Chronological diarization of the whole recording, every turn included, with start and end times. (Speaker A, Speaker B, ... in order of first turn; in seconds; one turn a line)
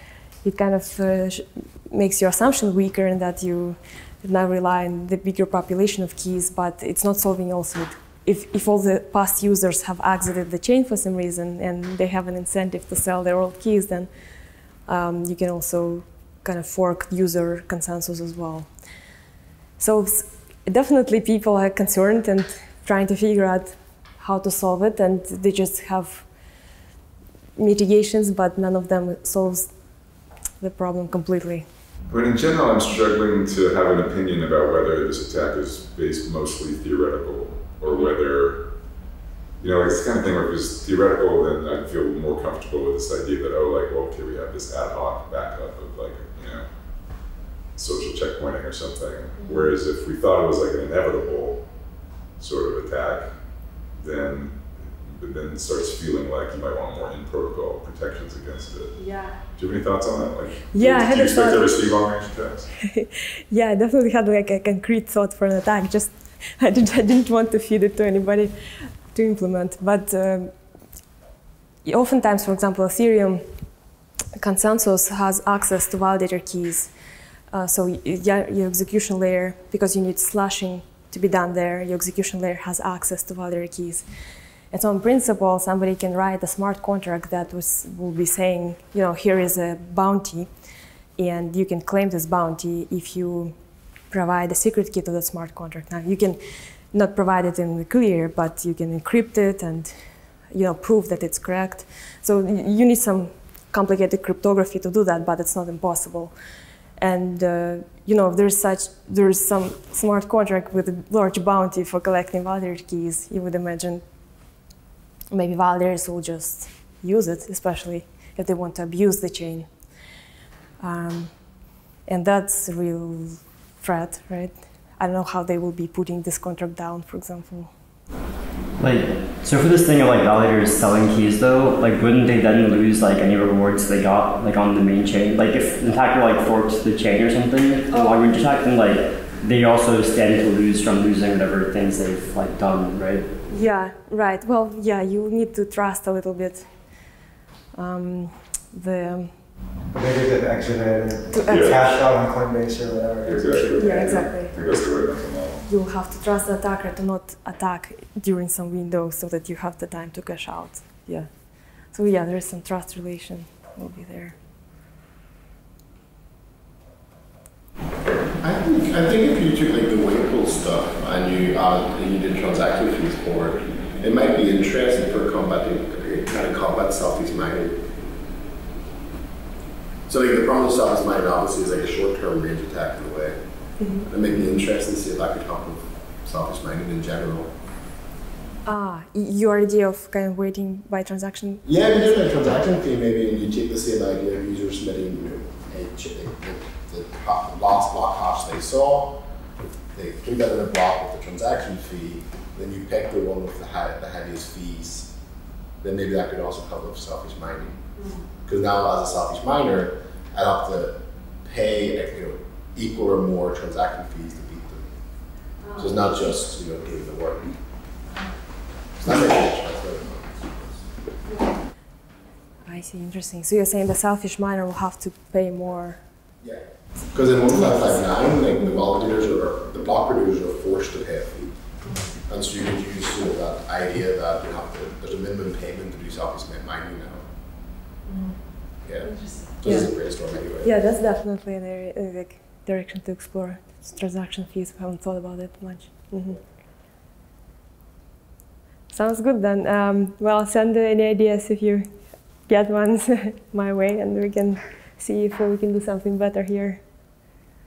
Speaker A: 0.4-14.1
Speaker A: 14.9-18.7
Speaker A: 19.8-26.3
Speaker A: 27.6-29.7
Speaker A: 30.6-31.7
Speaker B: 32.1-38.6
Speaker B: 39.6-46.7
Speaker B: 47.8-51.6
Speaker B: 52.4-53.3
Speaker B: 54.0-59.0
Speaker A: 59.0-59.3
Speaker B: 59.5-62.7
Speaker A: 60.7-61.7
Speaker A: 62.8-68.6
Speaker A: 69.1-70.5
Speaker A: 71.8-73.4
Speaker A: 74.4-76.9
Speaker A: 77.5-84.1
Speaker A: 84.7-90.5
Speaker A: 91.2-93.5
Speaker A: 94.1-96.4
Speaker A: 96.9-100.0
Speaker A: 100.5-106.3
Speaker A: 107.0-114.0
Speaker A: 115.3-119.7
Speaker A: 120.8-121.3
Speaker A: 122.1-127.7
Speaker C: 128.8-143.3
Speaker A: 143.5-146.7
Speaker A: 147.8-149.3
Speaker D: 149.9-154.8
Speaker A: 151.3-151.7
Speaker B: 151.5-151.8
Speaker B: 153.2-155.7
Speaker A: 153.8-154.5
Speaker A: 155.7-161.3
Speaker A: 161.9-164.4
Speaker E: 168.4-177.8
Speaker E: 180.1-183.4
Speaker E: 184.0-187.5
Speaker A: 188.7-192.6
Speaker E: 191.7-199.2
Speaker E: 199.9-205.1
Speaker E: 205.8-207.8
Speaker E: 208.4-214.9
Speaker E: 215.8-217.6
Speaker E: 219.0-220.9
Speaker A: 222.7-226.0
Speaker E: 226.4-231.6
Speaker E: 232.3-237.3
Speaker E: 238.8-240.7
Speaker A: 239.6-239.9
Speaker A: 240.6-246.4
Speaker A: 248.9-251.9
Speaker A: 252.5-256.8